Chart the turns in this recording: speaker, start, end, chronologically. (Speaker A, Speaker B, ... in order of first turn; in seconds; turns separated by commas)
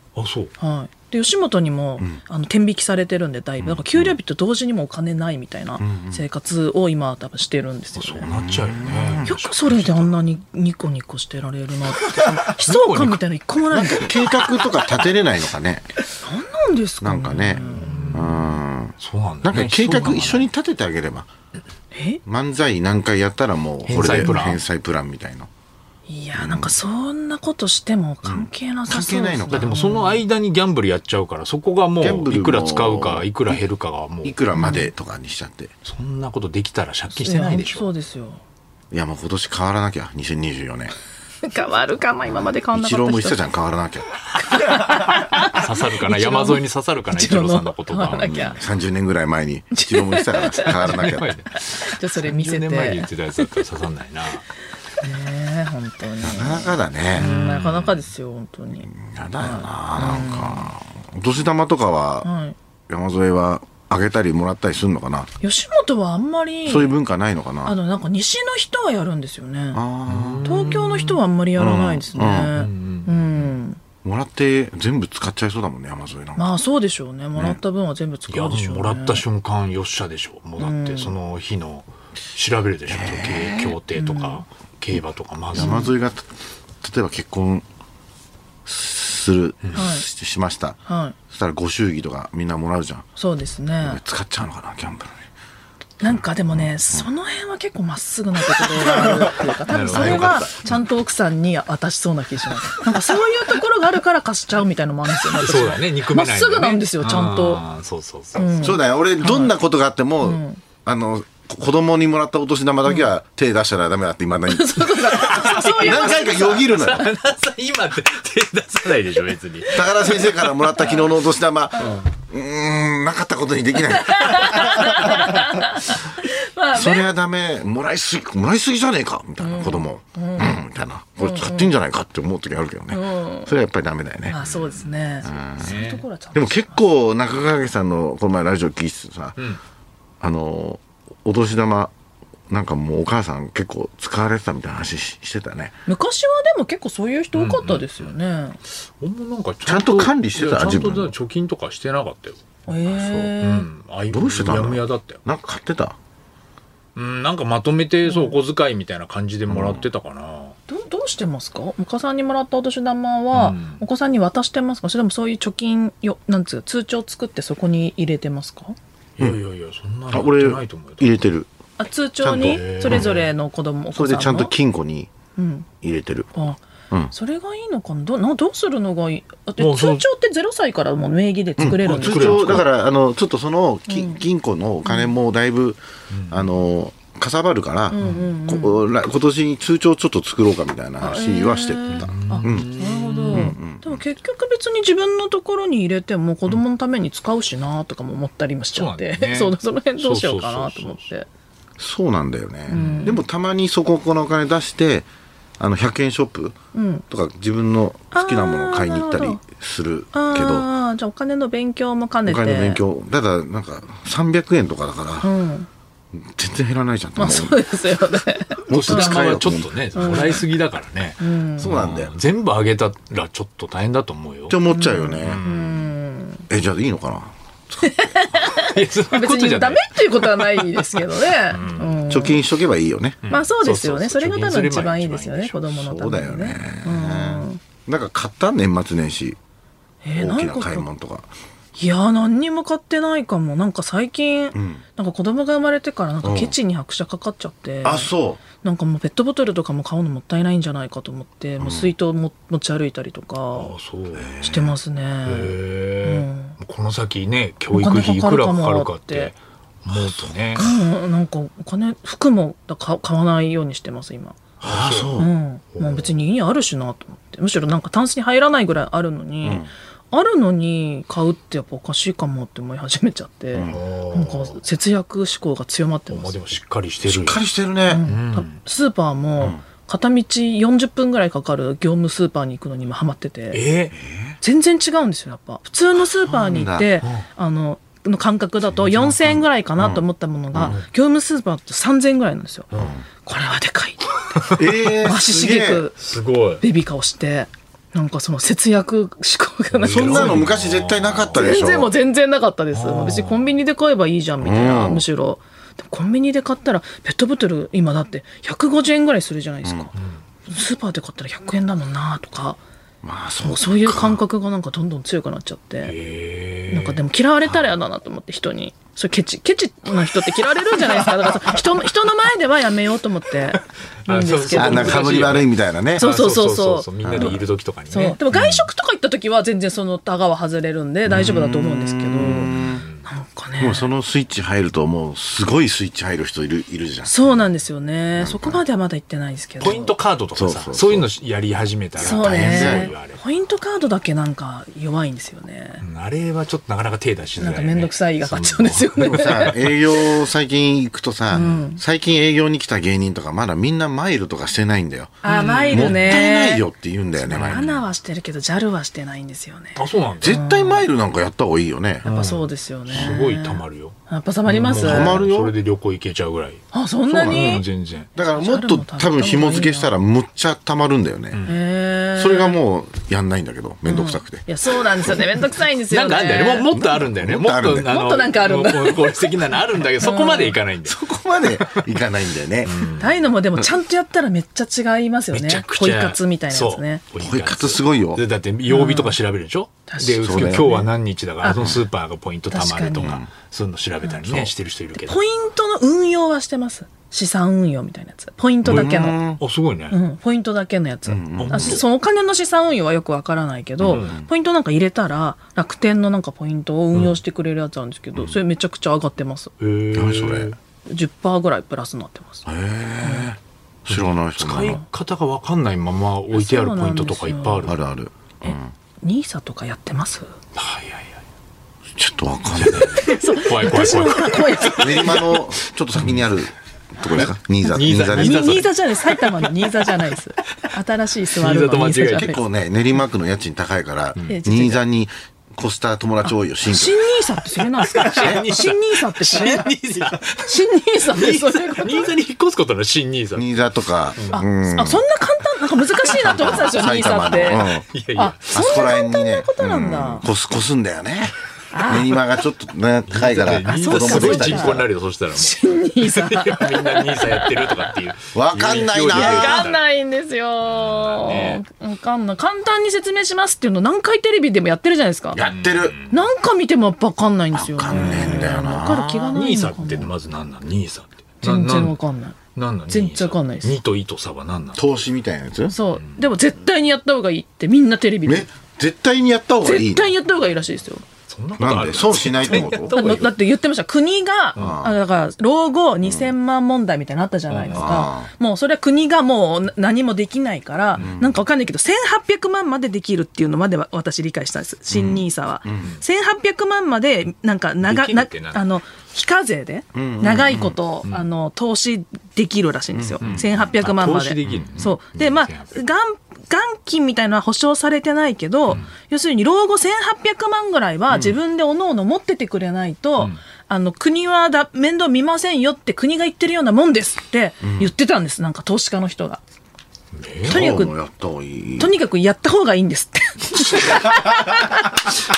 Speaker A: 0.1-0.5, Speaker B: 0.6-8.3, Speaker C: 3.6-4.1, Speaker C: 5.8-6.2, Speaker A: 8.0-10.2, Speaker C: 8.2-9.3, Speaker B: 9.2-14.2, Speaker A: 12.3-13.2, Speaker C: 13.7-15.9, Speaker B: 16.2-18.2, Speaker C: 17.0-21.3, Speaker A: 17.7-20.5, Speaker B: 21.9-22.2, Speaker C: 22.2-25.5, Speaker A: 23.9-24.6, Speaker B: 26.1-30.2, Speaker C: 26.4-26.7, Speaker C: 28.2-29.8, Speaker A: 29.5-34.4, Speaker C: 32.0-33.6, Speaker C: 34.2-35.7, Speaker B: 34.5-34.9, Speaker A: 35.8-37.9, Speaker B: 37.1-38.4, Speaker C: 38.9-40.9, Speaker B: 41.4-43.4, Speaker C: 42.7-44.1, Speaker B: 44.4-48.6, Speaker A: 45.5-48.6, Speaker C: 48.1-51.3, Speaker B: 49.7-51.0, Speaker A: 50.6-54.4, Speaker B: 51.7-53.6, Speaker B: 55.0-60.7, Speaker C: 56.2-57.3, Speaker A: 57.1-58.1, Speaker C: 58.9-62.3, Speaker B: 62.2-62.5, Speaker C: 62.9-65.3, Speaker B: 65.4-67.0, Speaker C: 66.7-67.8, Speaker B: 67.6-69.8, Speaker C: 69.7-70.6, Speaker A: 70.1-71.2, Speaker B: 70.4-73.8, Speaker C: 71.5-72.5, Speaker A: 72.5-73.5, Speaker C: 74.0-76.5, Speaker B: 76.3-79.2, Speaker A: 78.3-85.8, Speaker B: 80.6-81.1, Speaker C: 82.9-83.8, Speaker B: 83.9-84.4, Speaker C: 85.5-86.3, Speaker B: 85.5-85.9, Speaker C: 86.8-87.6, Speaker C: 88.7-90.8, Speaker B: 89.7-90.0, Speaker B: 90.8-91.2, Speaker C: 91.3-93.0, Speaker B: 93.2-94.0, Speaker C: 93.8-95.2, Speaker B: 96.0-107.6, Speaker C: 96.0-97.1, Speaker C: 98.8-99.3, Speaker A: 99.7-100.6, Speaker C: 99.8-100.7, Speaker A: 105.2-108.7, Speaker B: 108.3-109.5, Speaker C: 108.6-117.1, Speaker B: 110.2-110.6, Speaker B: 114.5-116.8, Speaker A: 115.2-119.8, Speaker C: 119.7-125.3, Speaker B: 120.0-121.0, Speaker B: 123.9-127.1, Speaker C: 126.7-134.4, Speaker B: 129.4-130.6, Speaker B: 131.2-131.7, Speaker B: 132.9-133.5, Speaker B: 134.3-136.8, Speaker A: 134.4-134.9, Speaker C: 135.2-135.8, Speaker A: 135.6-136.0, Speaker C: 136.3-139.4, Speaker C: 140.2-141.9, Speaker C: 142.5-145.8, Speaker B: 145.9-148.6, Speaker A: 147.3-148.1, Speaker A: 148.9-155.2, Speaker C: 149.7-151.1, Speaker B: 152.7-153.7, Speaker C: 154.1-155.9, Speaker A: 156.9-160.6, Speaker B: 158.0-158.3, Speaker C: 159.5-159.8, Speaker B: 160.7-168.8, Speaker A: 163.3-163.8, Speaker A: 169.2-171.2, Speaker C: 170.1-171.5, Speaker B: 171.8-174.5, Speaker C: 172.2-173.2, Speaker A: 172.3-173.3, Speaker C: 173.9-175.1, Speaker B: 175.3-175.7, Speaker C: 175.8-176.3, Speaker B: 176.3-176.6, Speaker B: 177.1-182.6, Speaker A: 179.6-180.0, Speaker C: 181.6-192.7, Speaker A: 181.8-182.7, Speaker B: 183.9-184.2, Speaker B: 184.8-185.1, Speaker A: 186.1-186.5, Speaker B: 187.9-188.8, Speaker A: 188.0-188.2, Speaker B: 191.0-201.3, Speaker A: 191.9-193.5, Speaker C: 193.3-194.0, Speaker A: 198.7-201.1, Speaker C: 201.8-205.1, Speaker B: 202.7-203.2, Speaker A: 202.7-203.2, Speaker C: 205.6-206.6, Speaker B: 206.7-207.0, Speaker C: 207.1-210.7, Speaker B: 208.1-209.4, Speaker B: 210.1-212.8, Speaker C: 212.2-215.3, Speaker B: 215.2-215.7, Speaker C: 216.1-217.6, Speaker B: 217.2-219.4, Speaker C: 218.7-219.7, Speaker A: 218.7-224.6, Speaker B: 219.9-220.4, Speaker B: 221.2-221.7, Speaker C: 221.6-222.1, Speaker C: 224.5-225.4, Speaker B: 224.7-226.4, Speaker A: 225.2-225.8, Speaker C: 226.5-228.1, Speaker B: 227.8-232.4, Speaker A: 228.6-232.0, Speaker C: 232.1-233.2, Speaker A: 233.2-235.7, Speaker B: 233.3-237.6, Speaker C: 235.7-239.4, Speaker B: 240.0-240.9, Speaker C: 240.2-241.3, Speaker B: 241.8-253.7, Speaker C: 244.5-244.8, Speaker C: 246.2-246.5, Speaker C: 247.8-248.4, Speaker C: 251.6-251.9, Speaker A: 253.5-254.3, Speaker C: 254.1-254.7, Speaker B: 254.4-256.6, Speaker A: 255.2-260.7, Speaker B: 257.7-259.3, Speaker B: 260.6-264.4, Speaker A: 264.6-265.2, Speaker C: 264.6-265.3, Speaker B: 265.2-276.4, Speaker A: 265.8-266.1, Speaker C: 269.4-269.7, Speaker C: 273.5-273.8, Speaker A: 273.6-274.6, Speaker A: 276.1-277.4, Speaker C: 277.0-278.1, Speaker B: 277.9-283.6, Speaker A: 278.0-278.6, Speaker A: 283.5-283.9, Speaker C: 283.9-284.4, Speaker B: 284.4-292.7, Speaker C: 286.2-286.9, Speaker A: 288.8-289.4, Speaker C: 289.8-290.8, Speaker C: 292.7-293.0, Speaker B: 293.2-300.5, Speaker A: 294.4-294.6, Speaker C: 294.6-295.9, Speaker A: 296.0-296.6, Speaker A: 299.7-301.7, Speaker C: 299.8-301.9, Speaker B: 301.3-309.9, Speaker A: 302.7-303.5, Speaker C: 304.4-305.0, Speaker C: 309.6-309.9, Speaker A: 309.9-310.2, Speaker B: 310.5-312.6, Speaker C: 313.0-314.2, Speaker B: 313.4-315.9, Speaker A: 315.8-317.0, Speaker B: 316.7-325.3, Speaker A: 324.1-328.7, Speaker C: 324.5-326.1, Speaker B: 326.0-332.5, Speaker C: 327.0-327.4, Speaker C: 331.1-332.8, Speaker A: 332.5-333.0, Speaker B: 333.1-333.9, Speaker C: 333.6-337.5, Speaker B: 337.0-339.9, Speaker C: 338.2-338.6, Speaker A: 339.6-343.2, Speaker C: 340.3-341.1, Speaker C: 342.0-342.9, Speaker B: 342.0-345.8, Speaker A: 345.8-349.8, Speaker B: 347.4-349.5, Speaker C: 349.0-357.7, Speaker B: 351.3-351.8, Speaker B: 355.2-356.6, Speaker A: 355.2-356.2, Speaker A: 357.3-357.8, Speaker B: 357.3-360.8, Speaker A: 359.8-360.4, Speaker C: 360.2-362.1, Speaker A: 362.0-366.6, Speaker B: 362.1-365.2, Speaker C: 364.7-365.5, Speaker B: 366.7-367.6, Speaker C: 367.1-367.6, Speaker A: 367.2-368.1, Speaker C: 368.1-371.4, Speaker B: 368.3-369.9, Speaker B: 371.4-372.6, Speaker C: 372.1-375.1, Speaker B: 373.9-376.7, Speaker A: 375.9-381.0, Speaker C: 376.7-377.9, Speaker B: 377.8-380.6, Speaker C: 380.8-382.9, Speaker A: 381.6-381.9, Speaker A: 382.6-383.2, Speaker B: 382.9-387.0, Speaker A: 385.3-395.2, Speaker C: 387.2-388.2, Speaker B: 388.7-389.1, Speaker B: 389.9-390.9, Speaker C: 390.2-390.8, Speaker B: 391.4-391.8, Speaker B: 392.5-393.2, Speaker C: 393.0-393.3, Speaker C: 394.2-394.5, Speaker B: 394.9-399.2, Speaker C: 398.6-399.4, Speaker A: 398.7-400.0, Speaker B: 399.9-409.5, Speaker C: 401.1-401.8, Speaker A: 401.4-401.8, Speaker C: 403.8-404.3, Speaker A: 409.6-410.6, Speaker C: 409.9-410.5, Speaker B: 410.9-412.5, Speaker C: 412.4-414.8, Speaker B: 413.0-413.3, Speaker A: 413.9-417.8, Speaker B: 416.3-417.7, Speaker C: 417.6-418.7, Speaker B: 418.4-420.3, Speaker A: 420.5-421.2, Speaker C: 421.9-423.0, Speaker A: 422.5-425.2, Speaker B: 422.9-425.4, Speaker C: 424.8-428.7, Speaker A: 425.9-426.2, Speaker A: 427.1-428.8, Speaker B: 428.1-432.4, Speaker A: 431.4-432.3, Speaker C: 432.1-437.0, Speaker B: 434.3-434.8, Speaker B: 436.7-442.1, Speaker A: 437.8-443.5, Speaker C: 438.1-438.4, Speaker C: 443.3-445.0, Speaker A: 444.2-444.4, Speaker B: 444.3-450.3, Speaker A: 446.1-448.8, Speaker C: 446.2-447.9, Speaker C: 448.5-454.8, Speaker B: 451.7-452.2, Speaker A: 453.1-459.8, Speaker B: 453.6-457.9, Speaker C: 458.3-459.6, Speaker B: 459.1-465.4, Speaker A: 460.6-461.6, Speaker C: 465.3-465.9, Speaker A: 465.4-466.2, Speaker B: 466.1-470.1, Speaker C: 467.5-469.4, Speaker A: 467.9-468.6, Speaker A: 469.3-472.0, Speaker B: 471.4-472.4, Speaker A: 472.5-474.9, Speaker B: 472.9-473.8, Speaker C: 474.7-475.7, Speaker B: 475.7-478.5, Speaker C: 478.2-480.1, Speaker B: 479.6-481.0, Speaker A: 481.3-483.4, Speaker C: 481.6-482.9, Speaker B: 482.4-519.4, Speaker C: 484.5-484.9, Speaker C: 486.0-486.3, Speaker A: 487.5-487.9, Speaker C: 487.7-488.3, Speaker C: 491.0-491.4, Speaker C: 495.6-495.9, Speaker A: 497.8-498.6, Speaker C: 499.9-500.8, Speaker C: 502.9-503.6, Speaker A: 503.2-505.8, Speaker C: 511.1-511.4, Speaker C: 517.6-517.9, Speaker A: 520.1-520.7, Speaker C: 520.4-521.9, Speaker B: 520.5-520.9, Speaker B: 521.8-525.1, Speaker C: 523.9-524.4